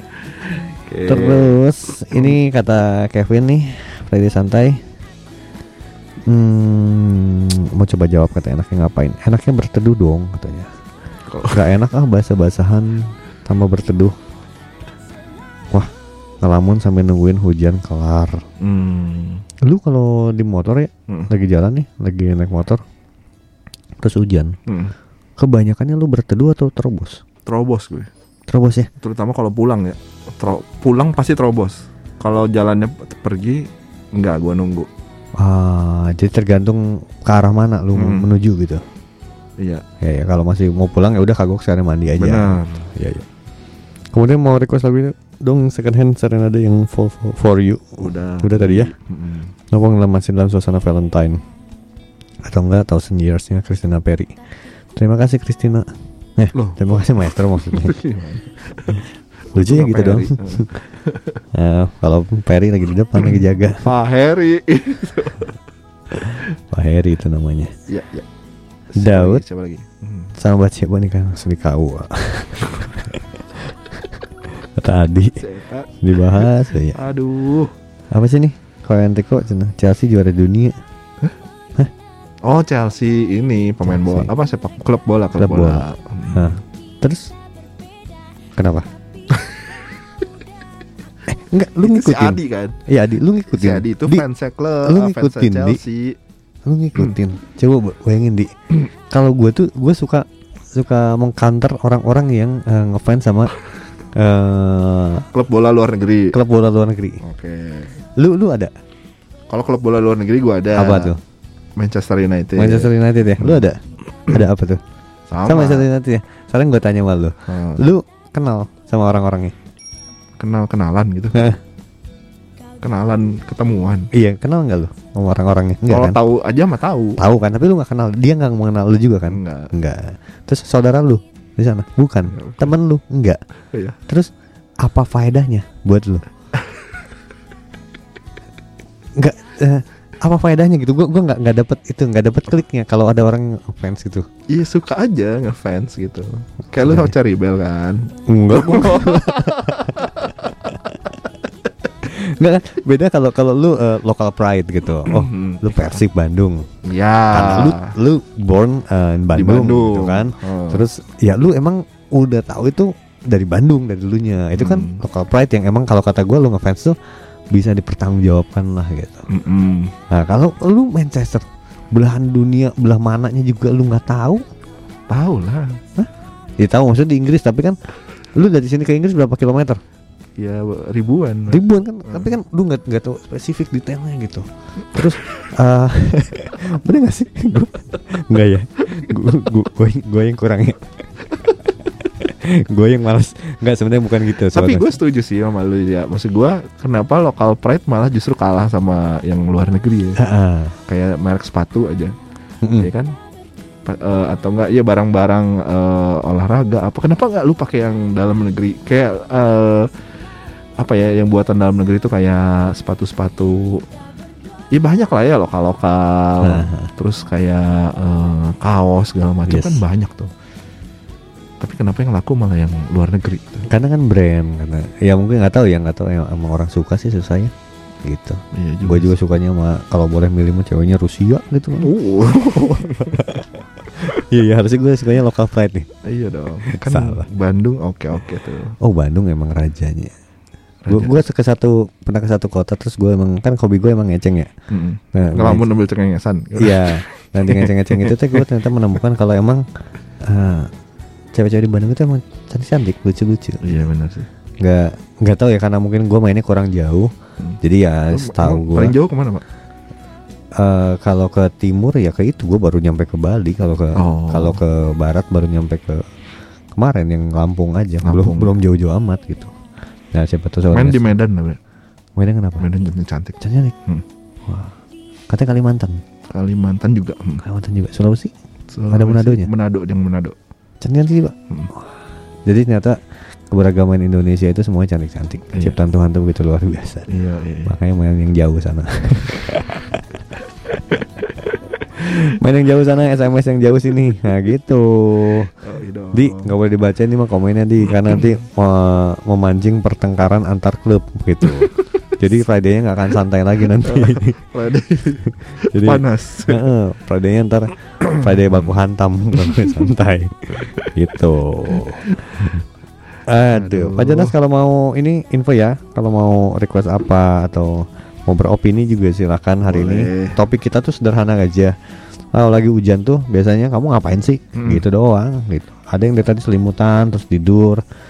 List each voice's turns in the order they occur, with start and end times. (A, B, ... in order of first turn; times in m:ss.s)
0:00.5-0:01.6 A
0:01.1-0:04.8 B
0:02.1-0:02.4 A
0:06.3-0:10.7 B
0:11.3-0:11.6 A
0:11.5-0:14.1 B
0:16.4-0:18.4 B
0:18.6-0:19.4 A
0:19.6-0:22.8 B
0:24.0-0:24.5 B
0:24.7-0:24.9 A
0:25.4-0:27.2 B
0:27.4-0:28.1 A
0:28.5-0:28.9 B
0:29.0-0:34.9 A
0:35.4-0:38.8 B
0:37.9-0:38.3 A
0:40.0-0:43.2 B
0:42.2-0:42.9 A
0:44.1-0:48.9 B
0:48.0-0:49.5 A
0:49.7-0:51.4 B
0:52.4-0:54.3 B
0:54.9-0:58.0 B
0:56.5-0:59.0 A
0:59.5-1:00.7 B
0:59.5-1:01.4 A
1:01.5-1:03.8 B
1:03.2-1:05.5 A
1:06.7-1:07.7 B
1:07.9-1:08.2 A
1:08.9-1:10.3 A
1:09.0-1:09.4 B
1:10.4-1:13.2 B
1:14.7-1:15.3 B
1:15.4-1:17.7 A
1:16.0-1:17.0 B
1:18.1-1:20.8 B
1:22.4-1:26.6 A
1:23.8-1:24.3 B
1:25.3-1:27.3 B
1:28.6-1:28.9 B
1:31.3-1:34.2 B
1:31.8-1:32.8 A
1:33.5-1:36.2 A
1:34.8-1:35.8 B
1:36.6-1:38.5 B
1:39.1-1:43.5 B
1:44.1-1:45.3 B
1:45.3-1:46.3 A
1:46.3-1:47.2 B
1:47.2-1:48.0 A
1:48.2-1:48.7 B
1:49.5-1:51.1 A
1:50.8-1:51.2 B
1:51.8-1:52.9 A
1:52.6-1:53.8 B
1:53.4-1:53.6 A
1:54.3-1:54.8 B
1:55.3-1:55.9 A
1:55.4-1:59.5 B
1:57.5-1:57.9 A
2:00.4-2:01.5 A
2:02.8-2:04.1 A
2:04.1-2:06.2 B
2:05.9-2:07.2 A
2:07.2-2:13.4 B
2:09.3-2:09.7 A
2:12.3-2:12.7 A
2:14.8-2:16.2 B
2:19.2-2:24.2 B
2:24.5-2:30.5 A
2:26.8-2:27.1 B
2:28.3-2:29.9 B
2:32.1-2:36.7 B
2:35.0-2:35.6 A
2:36.8-2:37.9 A
2:37.3-2:47.0 B
2:39.3-2:40.8 A
2:44.6-2:45.0 A
2:47.5-2:49.3 B
2:49.3-2:49.9 A
2:50.1-2:54.4 B
2:55.1-2:55.8 A
2:56.0-2:57.8 B
2:58.3-2:59.8 B
3:00.4-3:02.3 A
3:01.5-3:10.9 B
3:12.2-3:15.0 B
3:14.5-3:20.2 A
3:20.2-3:20.7 B
3:20.9-3:22.1 A
3:22.6-3:22.9 B
3:22.8-3:23.1 A
3:23.8-3:29.9 A
3:30.8-3:33.8 A
3:34.7-3:40.3 A
3:36.4-3:36.9 B
3:39.5-3:39.8 B
3:41.6-3:43.6 A
3:43.7-3:47.5 B
3:48.0-3:51.9 B
3:48.5-3:49.1 A
3:51.8-3:53.3 A
3:53.1-3:53.4 B
3:54.2-3:55.9 B
3:56.1-3:58.7 A
3:56.6-3:57.2 B
3:58.8-4:00.1 B
4:00.8-4:01.2 A
4:00.9-4:04.5 B
4:04.7-4:08.4 A
4:05.1-4:05.7 B
4:06.6-4:09.6 B
4:10.2-4:10.7 B
4:11.3-4:13.6 B
4:13.6-4:14.3 A
4:14.6-4:18.9 B
4:18.1-4:19.4 A
4:20.6-4:26.0 B
4:24.0-4:24.6 A
4:26.7-4:29.5 B
4:28.0-4:28.6 A
4:30.1-4:31.1 B
4:30.7-4:31.6 A
4:32.2-4:32.7 B
4:32.6-4:34.0 A
4:33.4-4:33.7 B
4:34.4-4:34.7 B
4:35.3-4:36.0 B
4:36.3-4:37.4 A
4:37.4-4:38.3 B
4:38.7-4:40.3 A
4:38.9-4:39.5 B
4:40.8-4:41.8 B
4:42.4-4:43.0 B
4:43.5-4:47.1 B
4:47.1-4:47.7 A
4:47.6-4:49.8 B
4:52.3-4:55.5 B
4:55.6-4:56.5 A
4:56.1-5:04.3 B
4:57.9-4:58.2 A
5:03.8-5:06.6 A
5:05.7-5:12.5 B
5:08.4-5:08.8 A
5:09.4-5:09.7 A
5:13.3-5:21.7 B
5:13.5-5:14.3 A
5:19.6-5:20.4 A
5:22.3-5:27.8 B
5:24.6-5:24.8 A